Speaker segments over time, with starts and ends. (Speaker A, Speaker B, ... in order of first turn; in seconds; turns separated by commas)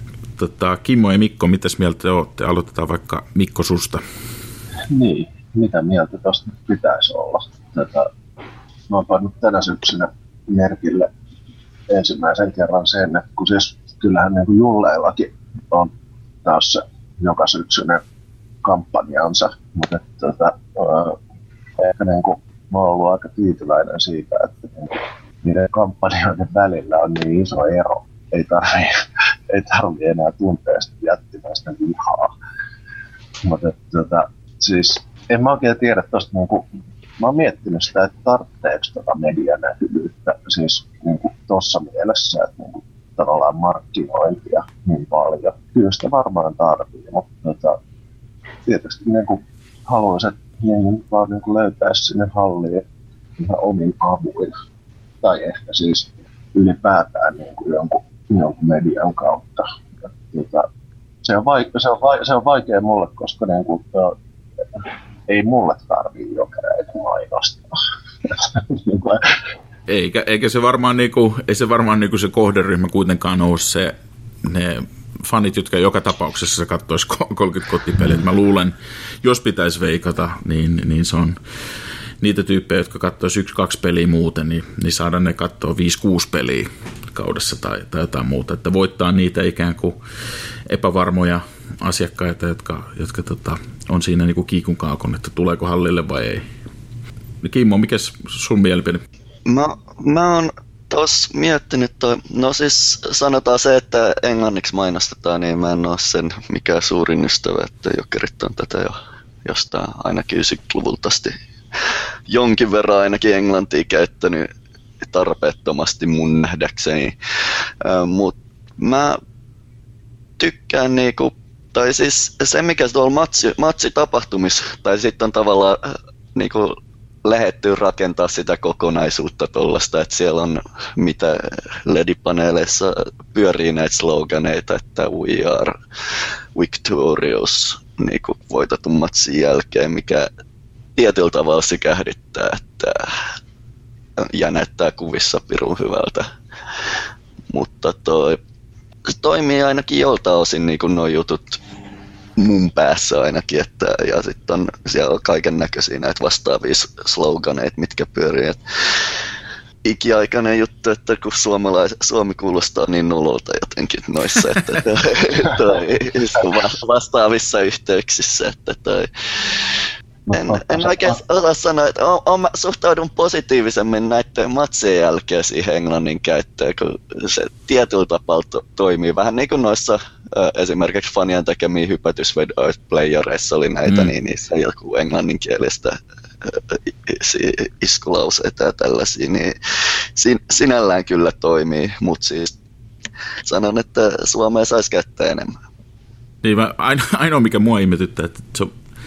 Speaker A: 0.4-4.0, Speaker B: 4.9-8.1, Speaker B: 8.9-11.1, Speaker B: 11.9-15.9, Speaker B: 16.4-18.0, Speaker B: 18.6-21.2, Speaker B: 21.8-32.3, Speaker B: 33.4-36.6, Speaker B: 37.2-47.8, Speaker B: 48.6-52.8, Speaker B: 53.4-54.5, Speaker B: 55.2-60.7, Speaker B: 61.2-64.2, Speaker B: 65.3-69.3, Speaker A: 69.9-81.4, Speaker A: 82.2-90.0, Speaker A: 90.7-96.4, Speaker A: 97.4-99.0, Speaker C: 99.5-114.5, Speaker C: 115.0-119.2, Speaker C: 120.4-140.3, Speaker C: 141.0-143.2, Speaker C: 144.2-146.3, Speaker C: 147.5-148.4, Speaker C: 149.1-151.6, Speaker C: 152.4-159.1, Speaker C: 159.8-169.8, Speaker B: 170.3-171.2, Speaker C: 170.3-189.5, Speaker A: 183.9-184.1, Speaker C: 190.1-192.5, Speaker C: 193.4-195.6, Speaker A: 196.4-198.7